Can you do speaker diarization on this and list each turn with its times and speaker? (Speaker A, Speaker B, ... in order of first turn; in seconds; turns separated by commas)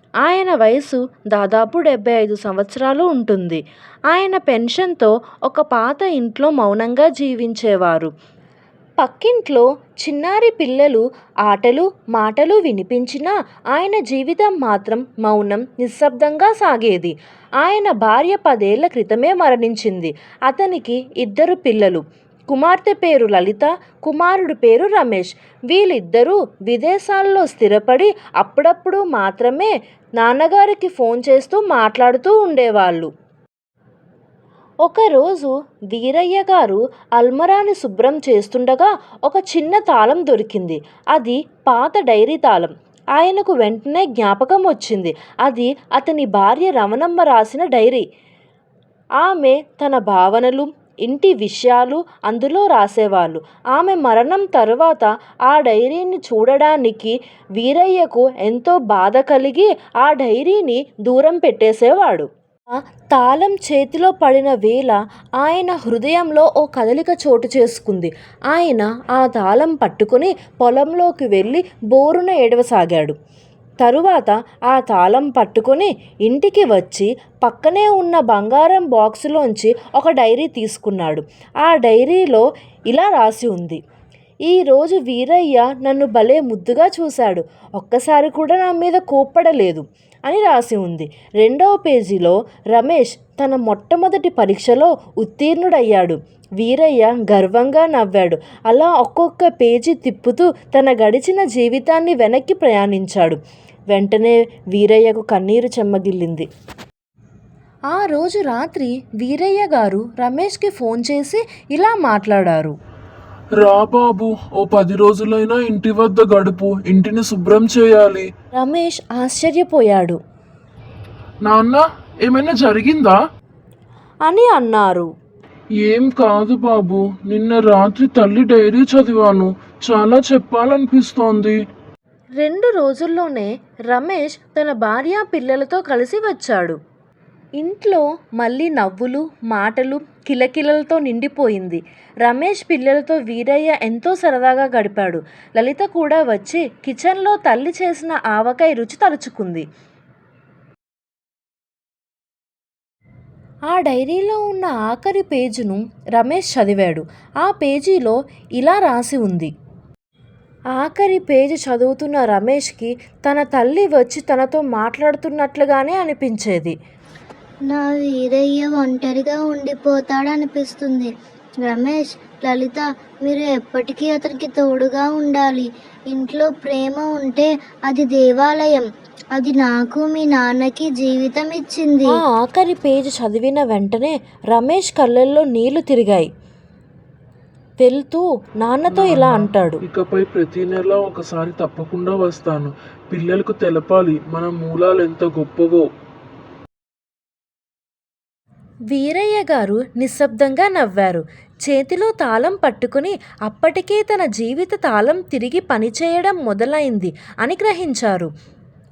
Speaker A: 0.2-8.1, Speaker A: 9.0-33.1, Speaker A: 34.8-48.0, Speaker A: 49.2-73.2, Speaker A: 73.8-83.8, Speaker A: 84.5-103.4, Speaker A: 103.9-106.5, Speaker A: 107.9-112.8, Speaker B: 113.5-118.3, Speaker A: 118.5-120.2, Speaker B: 121.4-123.2, Speaker A: 124.2-125.1, Speaker B: 125.8-131.6, Speaker A: 132.4-136.8, Speaker A: 137.6-149.7, Speaker A: 153.7-159.5, Speaker A: 160.7-166.8, Speaker C: 167.7-171.1, Speaker C: 171.6-182.2, Speaker A: 182.2-186.3, Speaker A: 187.8-189.8, Speaker B: 188.9-195.8, Speaker A: 198.9-208.3